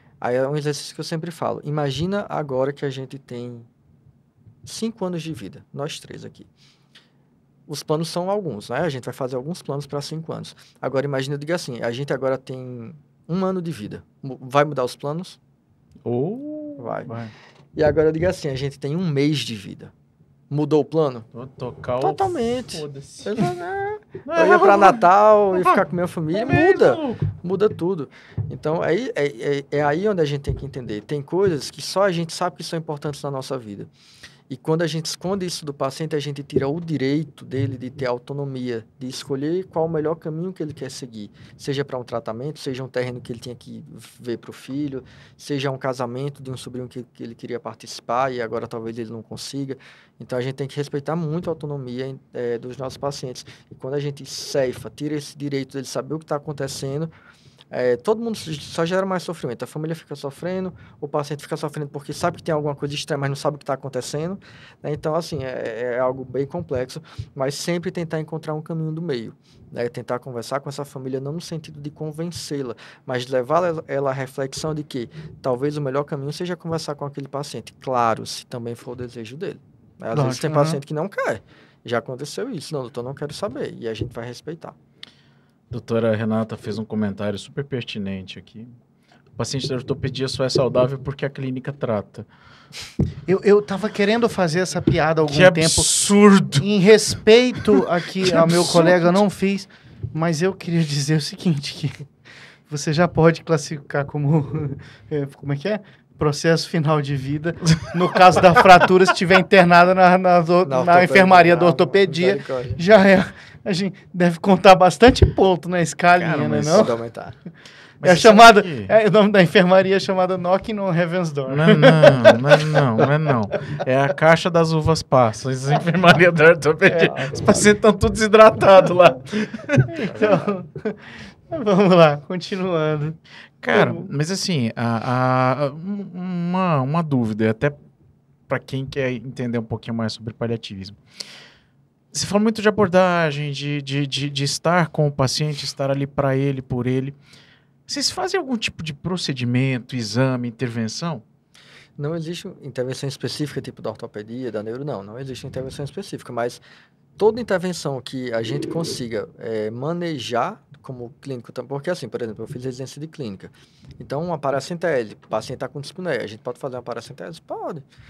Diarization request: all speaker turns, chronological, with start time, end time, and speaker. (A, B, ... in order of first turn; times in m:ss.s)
0:00.2-0:03.7 A
0:04.6-0:06.5 A
0:07.7-0:15.4 A
0:16.0-0:17.1 B
0:16.8-0:17.2 A
0:17.1-0:17.3 C
0:17.8-0:19.9 A
0:20.5-0:21.3 A
0:21.3-0:23.5 B
0:22.0-0:33.9 A
0:24.3-0:27.3 B
0:34.5-0:57.1 A
0:57.7-1:24.8 A
1:20.1-1:20.8 C
1:25.7-1:28.8 B
1:29.4-1:32.3 B
1:33.3-1:35.9 C
1:35.3-1:36.7 B
1:36.6-1:42.1 C
1:38.3-1:39.2 B
1:42.7-1:56.9 C
1:50.6-1:52.8 A
1:56.2-1:57.0 B
1:56.7-1:57.4 A
1:58.0-1:58.9 B
1:58.0-2:03.0 C
2:01.5-2:09.9 B
2:06.9-2:07.6 C
2:09.9-2:13.2 C
2:10.1-2:10.6 A
2:13.6-2:17.8 B
2:13.7-2:14.1 C
2:18.5-2:21.0 B
2:22.1-2:27.2 B
2:27.9-2:31.2 B
2:32.0-2:36.6 A
2:37.2-2:47.9 A